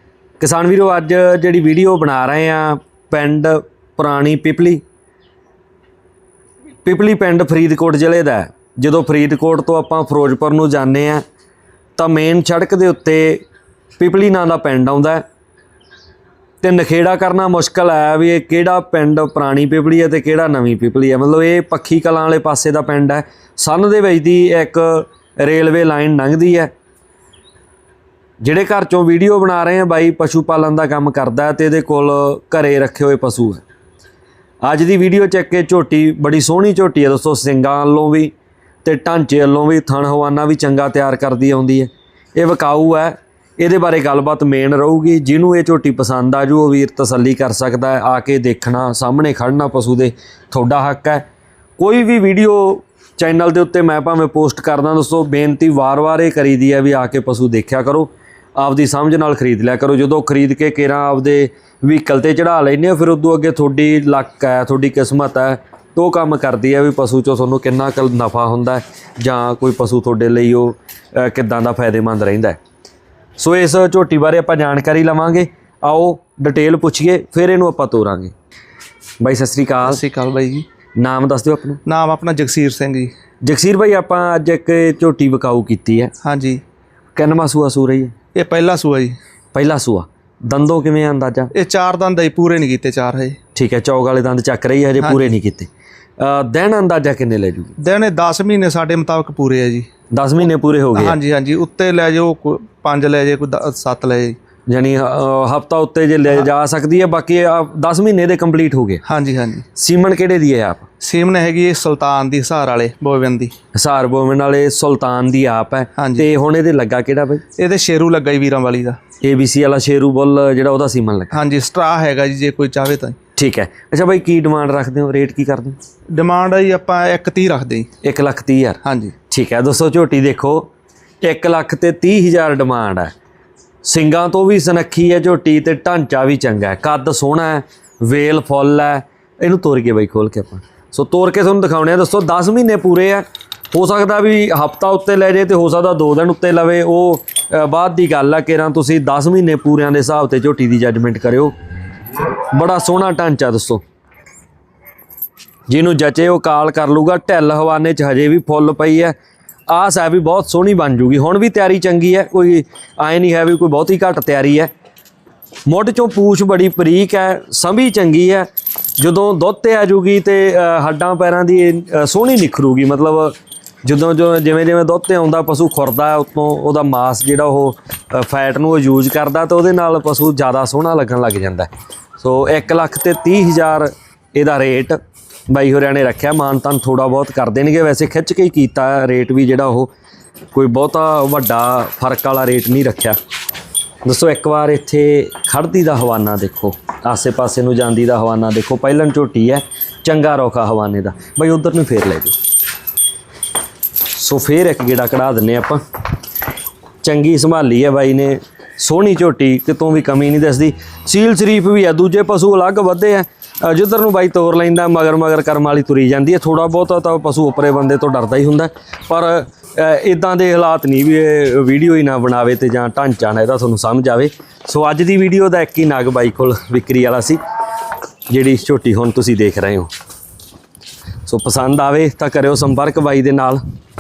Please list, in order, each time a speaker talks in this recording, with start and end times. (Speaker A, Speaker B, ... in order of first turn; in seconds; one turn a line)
Speaker A: 0.4-4.8
Speaker A: 6.8-11.2
Speaker A: 12.0-13.4
Speaker A: 14.0-15.2
Speaker A: 16.6-26.7
Speaker A: 28.4-33.6
Speaker A: 34.6-38.3
Speaker A: 38.8-51.2
Speaker A: 51.8-72.6
Speaker A: 73.4-78.3
Speaker A: 79.2-80.0
Speaker B: 79.8-80.7
Speaker A: 81.0-81.8
Speaker B: 81.9-83.1
Speaker A: 83.4-86.1
Speaker B: 86.2-86.6
Speaker A: 87.2-88.1
Speaker B: 88.3-89.2
Speaker A: 89.5-91.5
Speaker B: 91.5-93.4
Speaker A: 93.5-97.7
Speaker B: 95.0-95.3
Speaker B: 97.8-99.9
Speaker A: 100.1-101.2
Speaker B: 101.0-104.4
Speaker A: 104.7-109.0
Speaker B: 109.0-109.7
Speaker A: 109.8-110.9
Speaker B: 111.0-113.5
Speaker A: 113.7-117.4
Speaker B: 116.0-116.3
Speaker B: 117.6-119.0
Speaker A: 119.2-121.4
Speaker B: 121.3-123.2
Speaker A: 123.4-125.8
Speaker B: 126.1-127.9
Speaker A: 128.0-130.7
Speaker B: 128.8-129.1
Speaker A: 131.2-133.1
Speaker A: 133.8-151.5
Speaker A: 152.5-153.8
Speaker A: 155.7-159.2
Speaker A: 159.7-164.7
Speaker A: 165.7-168.5
Speaker A: 169.0-185.0
Speaker A: 185.5-189.9
Speaker A: 190.5-193.2
Speaker A: 194.1-202.3
Speaker A: 204.1-205.8
Speaker A: 207.0-227.4
Speaker A: 228.3-229.9
Speaker A: 231.3-233.6